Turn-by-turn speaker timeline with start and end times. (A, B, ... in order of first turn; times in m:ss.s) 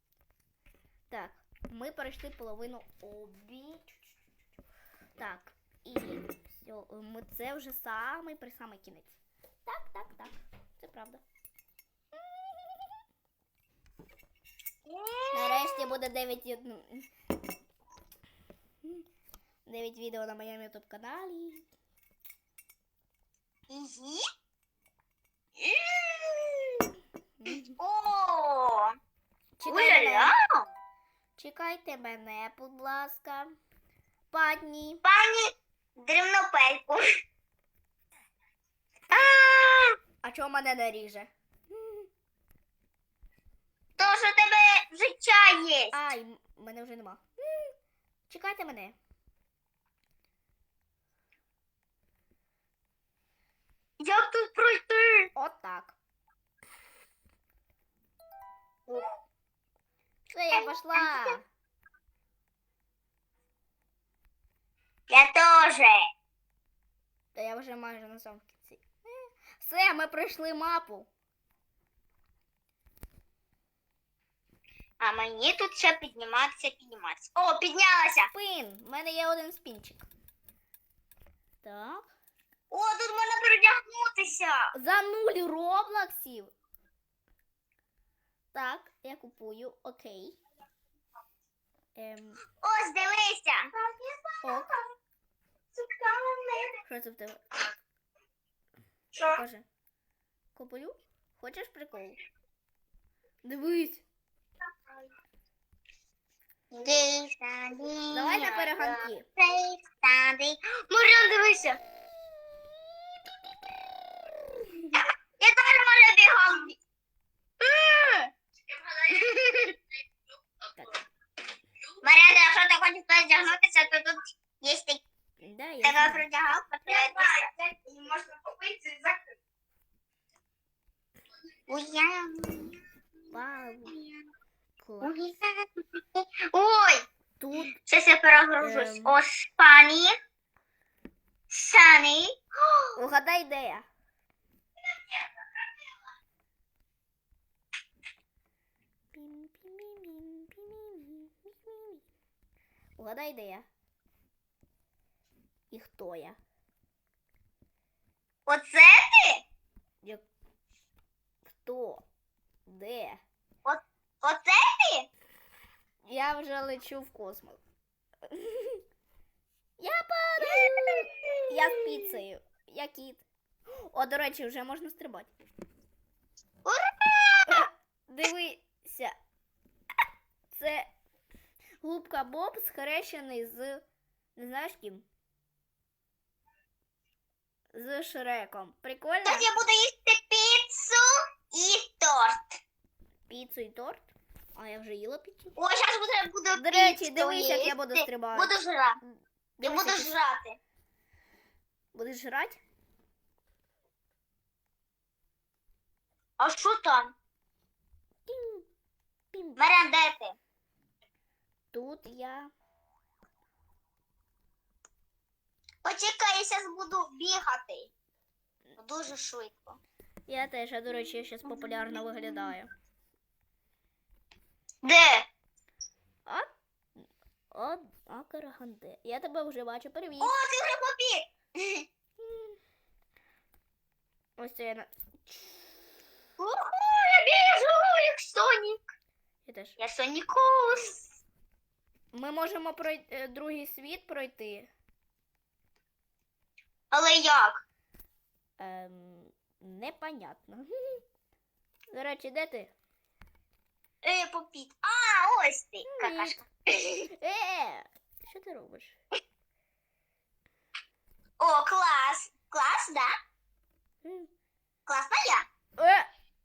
0:01.1-0:04.1 A
0:05.2-0:11.2 A
0:12.2-0:12.9 A
0:14.9-0:15.9 B
0:15.3-0:17.1 A
0:19.6-0:21.6 A
0:23.7-0:24.2 B
0:25.6-0:26.8 B
0:27.4-0:27.8 A
0:27.8-0:28.9 B
0:29.6-0:30.3 A
0:29.6-0:30.4 B
0:31.4-0:33.5 A
0:34.3-0:35.0 A
0:35.0-0:37.1 B
0:39.1-0:40.0 B
0:40.2-0:42.1 A
0:44.0-0:46.0 B
0:45.9-0:47.7 A
0:48.3-0:49.0 A
0:54.0-0:55.3 B
0:55.3-0:56.0 A
1:00.3-1:01.4 A
1:00.5-1:01.4 B
1:05.1-1:06.0 B
1:07.3-1:11.1 A
1:15.0-1:18.3 B
1:18.3-1:20.1 A
1:21.6-1:22.1 A
1:22.7-1:24.7 B
1:24.7-1:26.5 A
1:28.5-1:30.4 A
1:32.0-1:32.4 A
1:32.6-1:33.7 B
1:33.8-1:34.6 C
1:34.4-1:34.7 A
1:35.9-1:36.7 C
1:36.8-1:37.4 A
1:39.2-1:39.6 A
1:40.5-1:42.2 A
1:43.4-1:44.0 A
1:46.7-1:51.8 B
1:48.1-1:49.3 A
1:55.4-1:56.8 B
1:57.6-1:58.3 B
1:59.0-1:59.7 B
2:02.0-2:05.0 B
2:05.4-2:06.2 A
2:05.8-2:07.5 B
2:06.9-2:09.2 C
2:11.7-2:12.8 B
2:13.3-2:14.0 A
2:13.9-2:14.2 B
2:14.8-2:15.2 A
2:15.0-2:17.0 B
2:17.4-2:17.7 A
2:17.8-2:20.1 B
2:18.6-2:19.2 A
2:21.5-2:22.3 B
2:23.0-2:23.9 A
2:29.1-2:32.0 A
2:33.0-2:33.7 A
2:35.7-2:36.4 A
2:38.5-2:39.4 B
2:41.5-2:42.0 A
2:42.6-2:43.2 A
2:43.6-2:45.1 B
2:46.0-2:47.6 A
2:48.3-2:48.8 A
2:49.8-2:53.2 A
2:50.4-2:52.2 B
2:53.8-2:55.3 A
2:56.6-2:57.6 B
2:57.5-2:59.1 A
3:00.5-3:00.9 A
3:01.8-3:03.8 A
3:04.4-3:05.0 A
3:07.7-3:09.5 A
3:09.2-3:12.6 B
3:13.3-3:15.5 A
3:15.6-3:19.0 B
3:16.5-3:20.1 A
3:19.6-3:20.6 B
3:21.9-3:22.6 A
3:26.4-3:27.1 B
3:28.2-3:28.6 A
3:29.3-3:29.6 A
3:29.6-3:30.4 B
3:31.7-3:32.5 A
3:35.8-3:37.9 B
3:38.8-3:39.8 B
3:40.3-3:42.7 A
3:44.8-3:45.3 B
3:47.0-3:50.3 A
3:50.2-3:51.8 B
3:52.2-3:52.5 A
3:54.4-3:55.7 A
3:56.4-3:58.8 B
3:59.4-3:59.8 A
3:59.8-4:01.0 B
4:02.1-4:04.7 A
4:06.9-4:07.6 B
4:08.6-4:11.0 A
4:11.9-4:12.7 A
4:14.0-4:17.1 B
4:15.8-4:16.4 A
4:17.1-4:19.0 A
4:21.4-4:23.1 B
4:24.0-4:24.3 A
4:24.9-4:25.4 B
4:25.8-4:26.1 A